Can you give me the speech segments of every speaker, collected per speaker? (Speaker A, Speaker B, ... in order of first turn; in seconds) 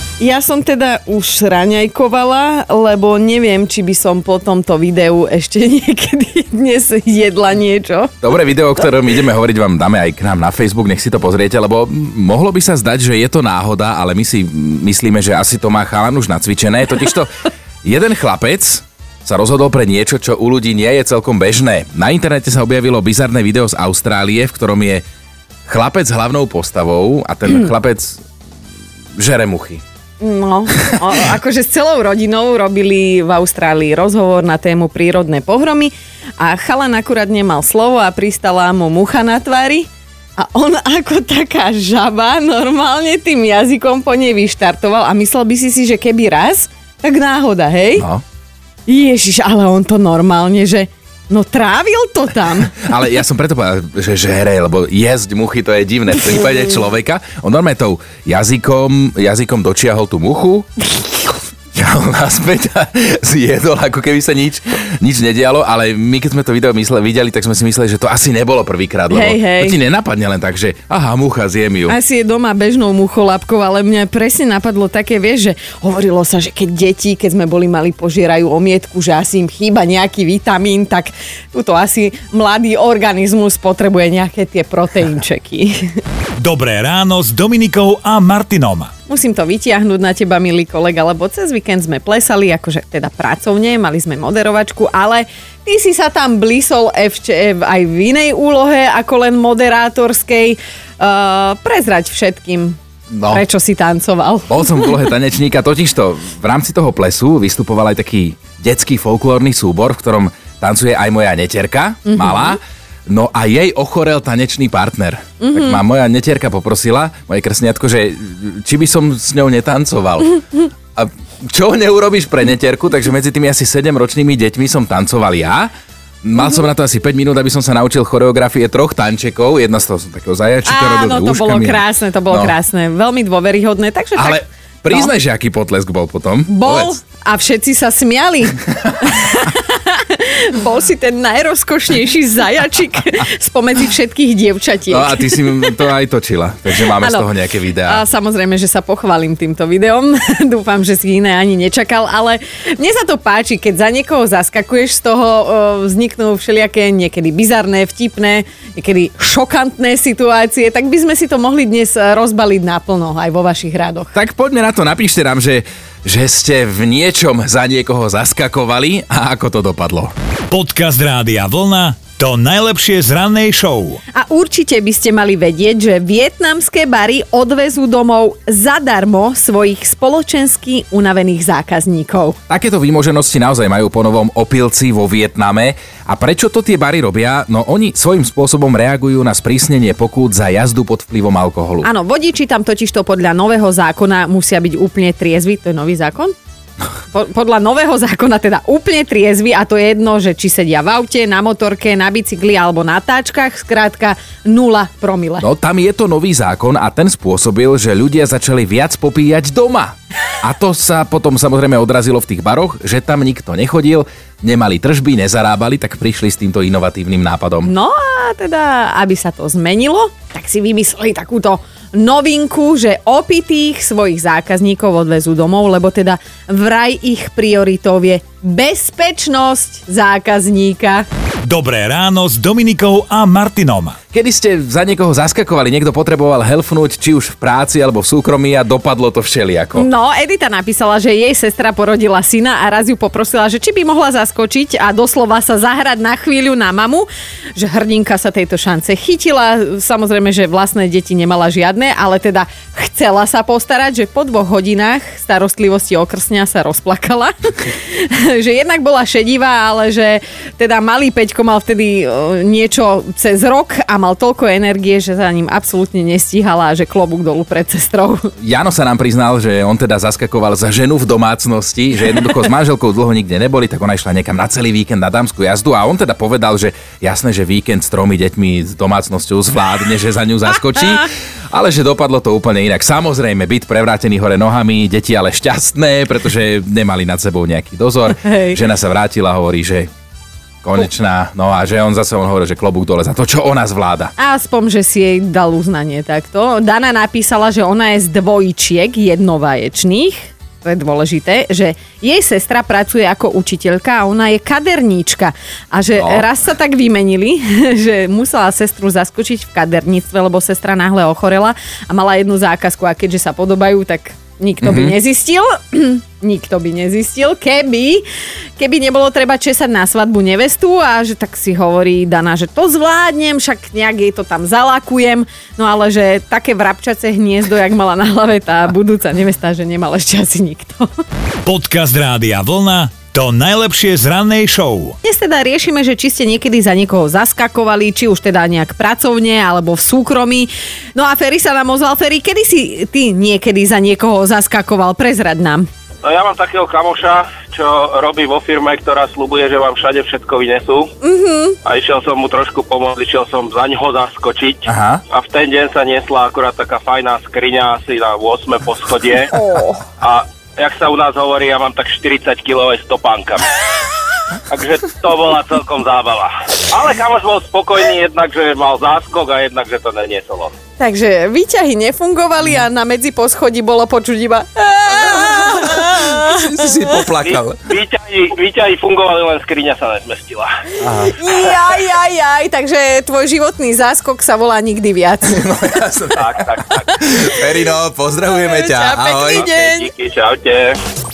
Speaker A: 0.2-8.2, 30.2-48.0, 48.9-52.9, 69.1-69.8, 71.9-86.0, 89.1-102.8, 103.3-104.9, 112.1-112.5, 115.4-115.8, 130.7-134.4, 136.5-145.8, 147.0-147.3, 147.8-164.1, 174.1-182.4, 191.8-196.3, 197.1-205.4, 217.6-231.0, 239.8-268.3, 288.2-288.6, 294.2-318.0, 318.6-331.0, 335.0-345.7, 351.0-351.6, 359.3-359.8, 370.8-377.1, 380.9-385.4, 388.3-389.9
Speaker B: 8.2-17.3, 17.8-25.0, 25.7-28.2, 29.2-29.8, 48.0-48.2, 52.8-60.7, 61.7-72.0, 103.1-103.4, 104.5-120.4, 120.9-125.7, 126.2-132.5, 134.2-136.9, 144.9-148.0, 164.1-170.1, 182.5-191.9, 205.4-217.7, 234.1-239.9, 268.4-289.9, 290.6-294.1, 306.0-306.2, 314.6-314.9, 354.6-355.0, 375.4-377.6, 380.8-381.2, 385.2-389.5
Speaker C: 86.4-88.9, 170.5-174.0, 231.4-234.0, 331.4-334.9
Speaker D: 346.0-350.9, 351.6-359.3, 360.0-363.5, 364.5-370.5, 377.2-380.5, 386.2-386.9, 389.3-390.8